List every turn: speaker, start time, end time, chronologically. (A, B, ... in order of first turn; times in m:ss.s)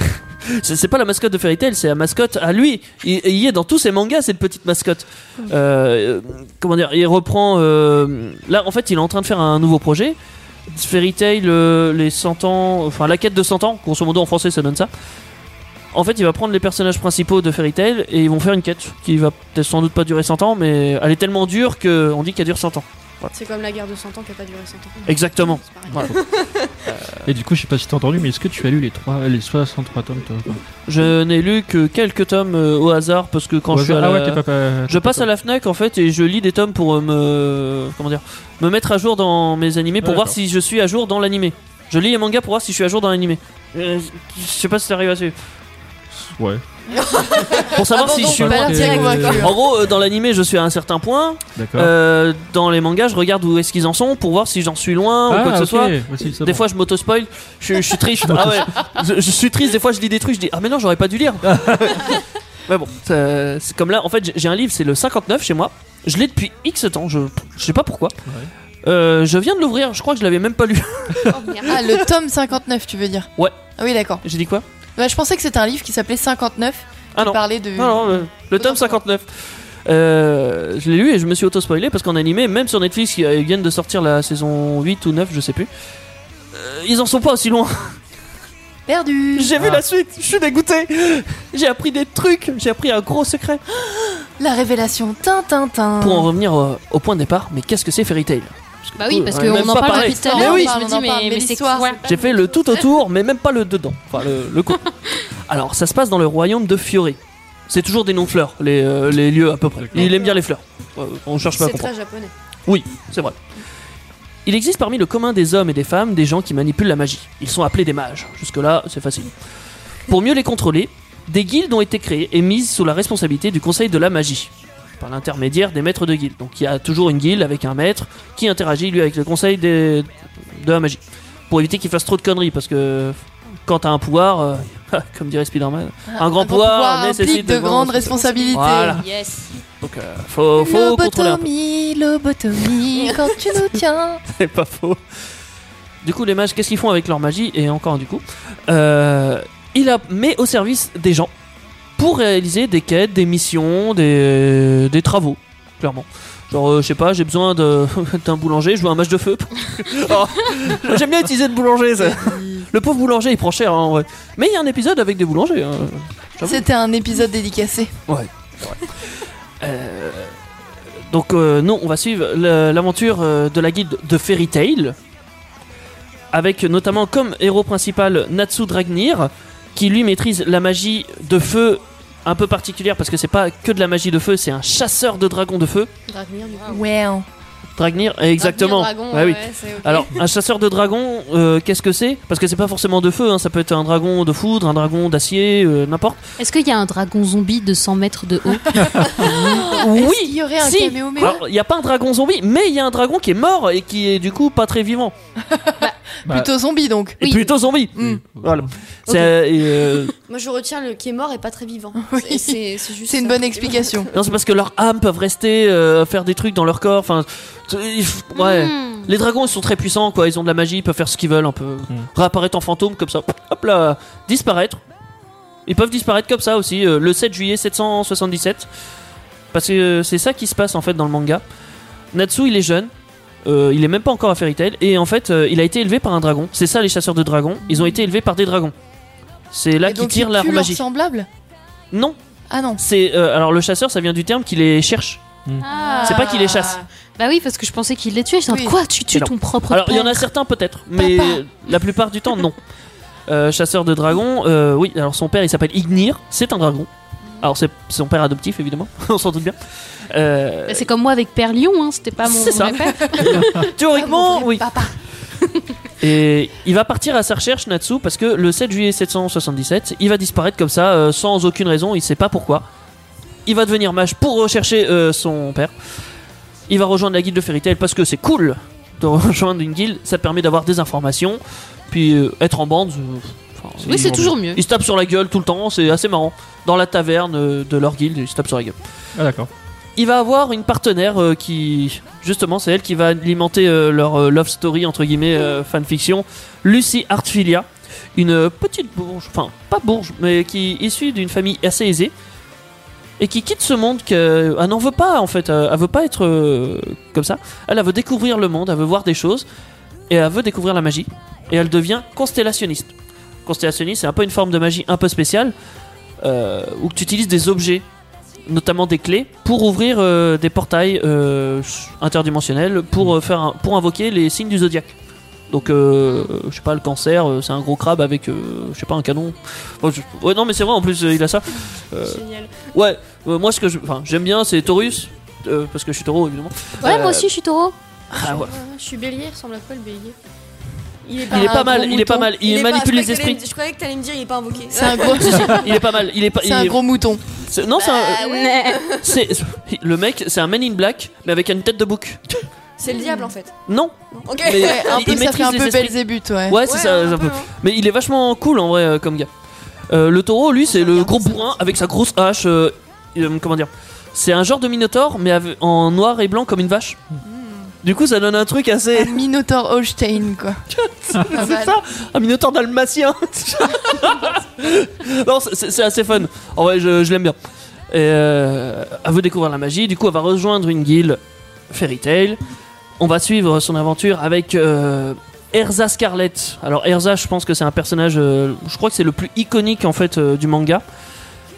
0:00.5-0:10.2 A
0:10.7-0:14.9 A
0:15.9-0:23.3 A
0:23.3-0:26.8 B
0:25.0-0:26.1 A
0:26.9-0:27.3 A
0:27.2-0:30.6 C
0:30.9-0:45.3 A
0:33.7-0:35.3 C
0:40.0-0:40.4 C
0:46.1-0:46.6 C
0:46.9-0:49.5 B
0:47.5-0:49.6 D
0:47.6-1:08.2 A
0:48.2-0:49.4 C
0:51.6-0:51.9 C
0:55.3-0:56.6 C
0:58.2-0:58.8 C
1:01.4-1:02.0 C
1:08.8-1:11.9 A
1:11.3-1:12.0 B
1:11.6-1:14.2 D
1:14.2-1:14.6 A
1:15.0-1:19.0 D
1:17.1-1:25.7 A
1:26.5-1:28.0 A
1:28.9-1:29.6 D
1:29.3-1:33.6 A
1:29.6-1:29.8 C
1:33.8-1:36.3 D
1:36.0-1:40.7 A
1:39.0-1:42.0 E
1:39.4-1:42.0 D
1:41.8-1:42.9 B
1:42.0-1:44.9 A
1:45.4-1:47.2 A
1:47.7-1:51.9 A
1:49.9-1:50.1 C
1:50.0-1:50.4 B
1:51.5-1:52.3 B
1:52.6-1:53.4 A
1:54.4-1:59.3 A
2:00.1-2:19.0 A
2:16.1-2:19.0 D
2:18.2-2:19.4 B
2:19.0-2:19.4 E
2:19.8-2:21.5 A
2:20.6-2:24.2 D
2:23.0-2:23.3 B
2:24.3-2:25.0 A
2:26.0-2:31.3 A
2:32.0-2:46.6 A
2:42.0-2:42.6 D
2:46.4-2:47.9 D
2:48.1-2:50.3 A
2:51.1-2:55.0 A
2:56.3-3:05.9 A
3:06.1-3:06.8 B
3:06.7-3:07.2 D
3:07.8-3:16.2 A
3:08.4-3:10.2 B
3:16.4-3:18.9 E
3:19.1-3:21.4 D
3:19.2-3:25.1 A
3:25.5-3:27.3 D
3:27.2-3:27.5 E
3:27.2-3:30.1 A
3:28.0-3:28.2 D
3:28.0-3:28.7 C
3:30.3-3:34.2 B
3:32.0-3:34.1 D
3:34.1-3:44.8 A
3:38.3-3:39.1 E
3:45.6-3:48.7 A
3:49.5-3:51.4 A
3:52.1-3:52.9 A
3:53.4-3:58.7 A
3:59.5-4:00.8 A
3:59.8-4:01.3 D
4:01.9-4:02.2 A
4:02.5-4:02.8 D
4:02.8-4:05.2 A
4:05.6-4:06.3 E
4:05.8-4:06.2 B
4:05.8-4:06.8 D
4:06.0-4:06.8 A
4:07.2-4:10.2 E
4:08.5-4:08.7 D
4:09.1-4:12.6 A
4:11.0-4:11.4 D
4:13.3-4:16.9 A
4:17.4-4:19.6 A
4:20.1-4:20.9 A
4:20.7-4:23.4 E
4:22.2-4:24.8 A
4:22.8-4:24.9 D
4:23.4-4:23.6 C
4:26.0-4:32.6 A
4:33.4-4:35.7 A
4:36.7-4:48.8 A
4:43.8-4:44.6 E
4:49.2-4:49.5 C
4:50.0-5:02.1 A
5:03.2-5:09.4 A
5:10.1-5:12.9 A
5:13.4-5:15.5 A
5:16.2-5:17.8 A
5:18.5-5:24.9 A
5:25.5-5:37.3 A
5:32.0-5:32.7 B
5:36.8-5:37.7 E
5:38.1-5:38.5 A
5:38.1-5:40.2 B
5:41.0-5:45.8 B
5:41.3-5:42.3 D
5:41.3-5:43.4 A
5:44.7-5:45.7 D
5:45.4-5:46.8 A
5:46.4-5:47.2 D
5:47.5-5:48.2 A
5:47.8-5:49.2 B
5:48.2-5:48.8 E
5:49.0-5:52.2 A
5:52.8-5:53.5 B
5:53.7-5:59.3 A
5:54.1-5:55.2 B
5:54.6-5:56.6 D
5:56.6-5:57.5 B
5:59.9-6:07.0 A
6:00.6-6:01.7 B
6:07.2-6:07.7 D
6:07.8-6:09.2 A
6:08.9-6:10.6 D
6:10.7-6:17.4 A
6:11.2-6:11.8 D
6:17.9-6:22.4 A
6:23.0-6:30.8 A